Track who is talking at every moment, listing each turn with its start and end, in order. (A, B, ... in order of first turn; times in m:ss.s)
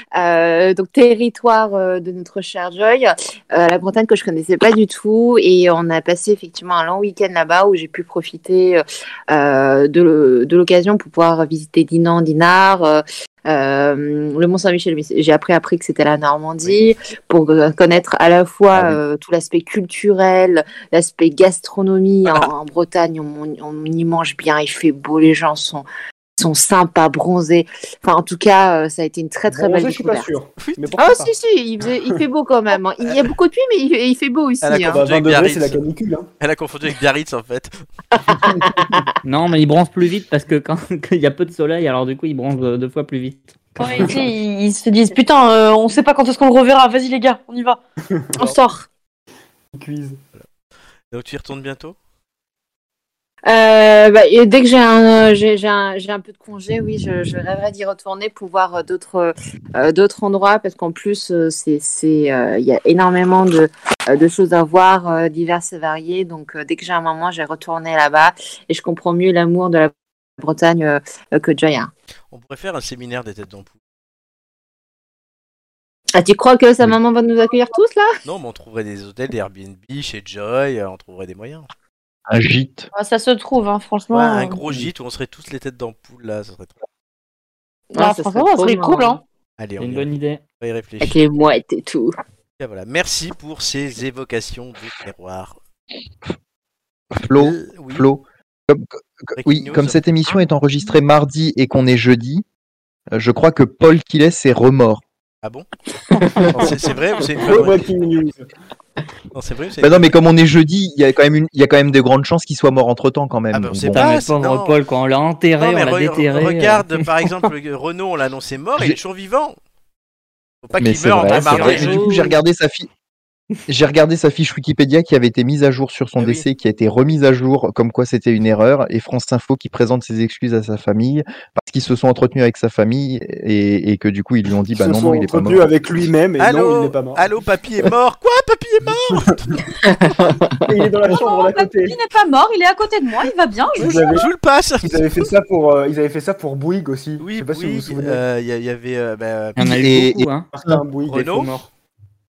0:00.1-0:25.8 A
0:18.7-0:19.0 B
0:26.4-0:30.3 A
0:29.5-0:31.3 C
0:30.6-0:30.9 D
0:31.0-0:35.0 A
0:34.6-0:35.8 D
0:34.9-0:36.3 C
0:36.4-0:37.8 D
0:38.3-0:39.0 A
0:39.2-0:44.0 E
0:43.8-0:47.8 F
0:48.1-0:48.4 C
0:48.4-0:48.8 F
0:49.7-0:50.2 C
0:51.1-0:52.0 D
0:53.4-1:11.9 A
1:12.3-1:13.7 D
1:16.2-1:18.1 A
1:18.2-1:21.7 D
1:22.3-1:22.9 B
1:22.9-1:24.6 F
1:24.1-1:26.7 D
1:27.9-1:29.2 A
1:28.0-1:29.2 F
1:29.6-1:30.1 D
1:29.8-1:30.4 E
1:30.6-1:31.2 D
1:31.0-1:32.1 A
1:32.6-1:35.6 D
1:37.1-1:42.4 B
1:37.3-1:38.1 D
1:39.4-1:40.4 D
1:43.1-1:45.0 B
1:46.3-1:46.7 B
1:46.5-1:47.9 D
1:47.4-1:48.5 C
1:49.3-1:50.1 D
1:49.8-1:54.1 B
1:53.5-1:54.8 D
1:53.9-1:57.0 E
1:55.6-1:59.6 D
2:00.6-2:02.3 D
2:00.8-2:02.9 B
2:01.3-2:02.3 E
2:03.7-2:15.7 B
2:06.2-2:06.4 D
2:14.8-2:17.3 C
2:16.4-2:19.4 D
2:20.7-2:22.0 C
2:21.1-2:24.2 F
2:23.8-2:24.3 C
2:23.8-2:25.3 D
2:24.8-2:28.2 C
2:27.2-2:29.6 D
2:29.6-2:30.5 E
2:29.6-2:30.8 B
2:30.5-2:31.7 C
2:31.1-2:31.5 D